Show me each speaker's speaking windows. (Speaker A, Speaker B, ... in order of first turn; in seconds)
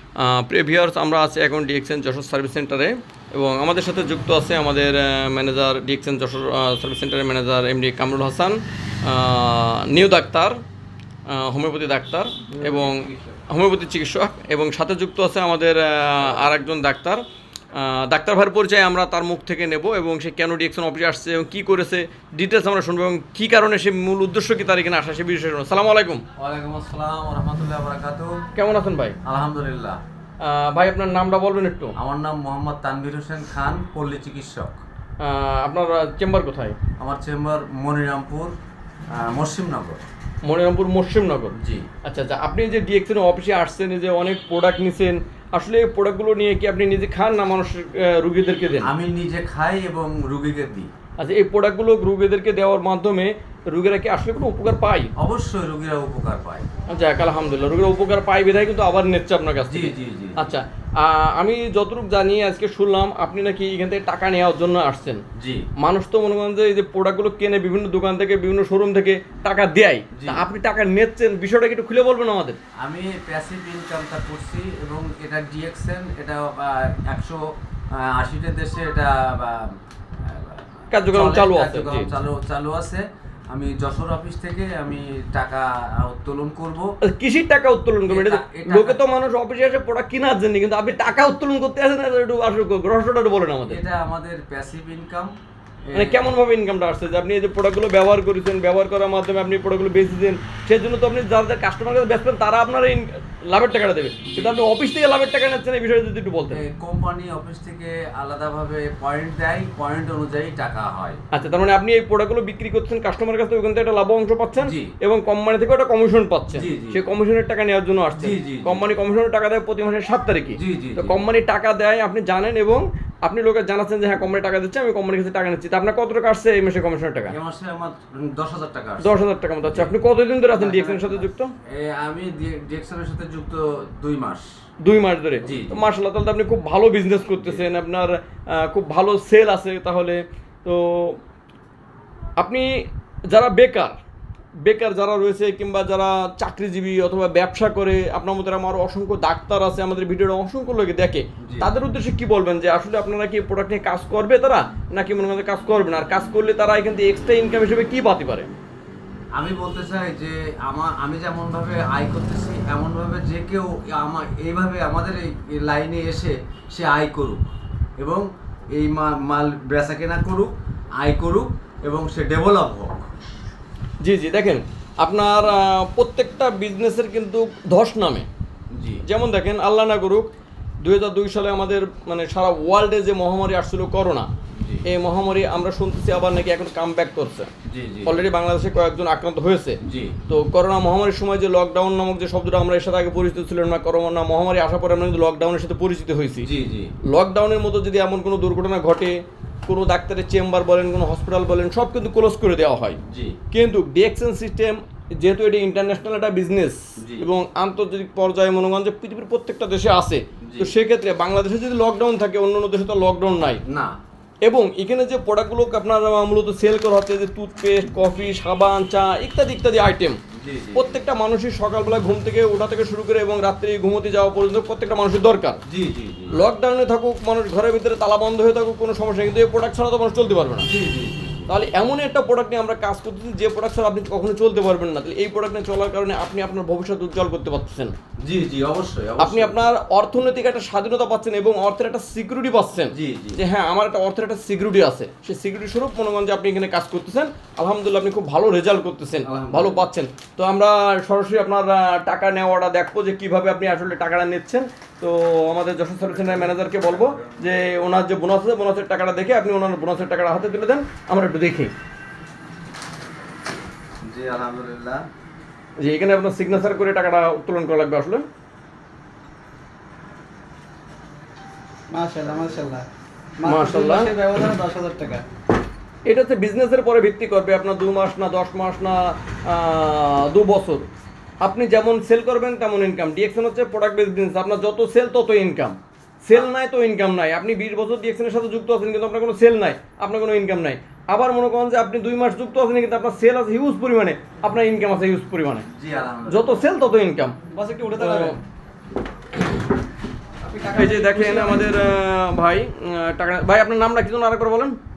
Speaker A: 0.2-10.6, 11.3-17.2, 17.7-26.2, 28.5-29.2, 30.4-31.9, 35.2-36.8, 40.4-48.9, 51.2-55.1, 56.9-65.2, 65.8-72.6, 80.9-82.1, 87.0-93.8, 95.9-106.6, 111.3-127.3, 129.0-131.5, 134.8-141.2, 142.4-142.7, 143.3-143.9, 144.6-158.5, 174.0-178.2, 179.0-180.3, 180.8-184.3, 184.8-187.5, 188.1-189.8, 190.3-196.5, 197.1-203.0, 203.5-213.6, 214.4-220.2, 220.7-225.6, 226.3-230.7, 231.5-237.9, 239.2-261.7, 265.8-268.2, 273.4-274.1, 276.1-280.9, 281.4-295.7, 296.3-298.4, 300.7-304.8
Speaker B: 12.5-13.3, 26.4-28.4, 29.2-30.0, 32.0-34.8, 37.0-38.5, 39.1-40.0, 41.5-41.9, 48.8-50.9, 55.2-56.7, 59.6-60.5, 65.3-65.7, 70.1-70.4, 72.8-86.9, 88.1-89.0, 93.7-95.3, 95.8-96.2, 104.3-104.6, 106.5-111.2, 114.6-114.9, 116.5-117.0, 118.1-119.0, 120.5-121.2, 127.3-129.1, 129.7-129.9, 130.5-134.5, 135.4-135.8, 137.4-137.6, 151.4-151.7, 159.3-173.1, 178.7-179.0, 184.5-184.8, 187.7-188.2, 189.8-190.2, 196.4-196.9, 203.1-203.4, 207.0-207.3, 210.4-210.7, 213.6-213.9, 220.4-221.0, 225.7-226.4, 230.6-231.5, 238.2-239.6, 242.9-243.4, 249.2-249.9, 256.1-257.4, 264.0-265.1, 272.2-272.6, 295.7-296.7
Speaker C: 271.9-272.8, 273.4-275.2, 300.4-301.7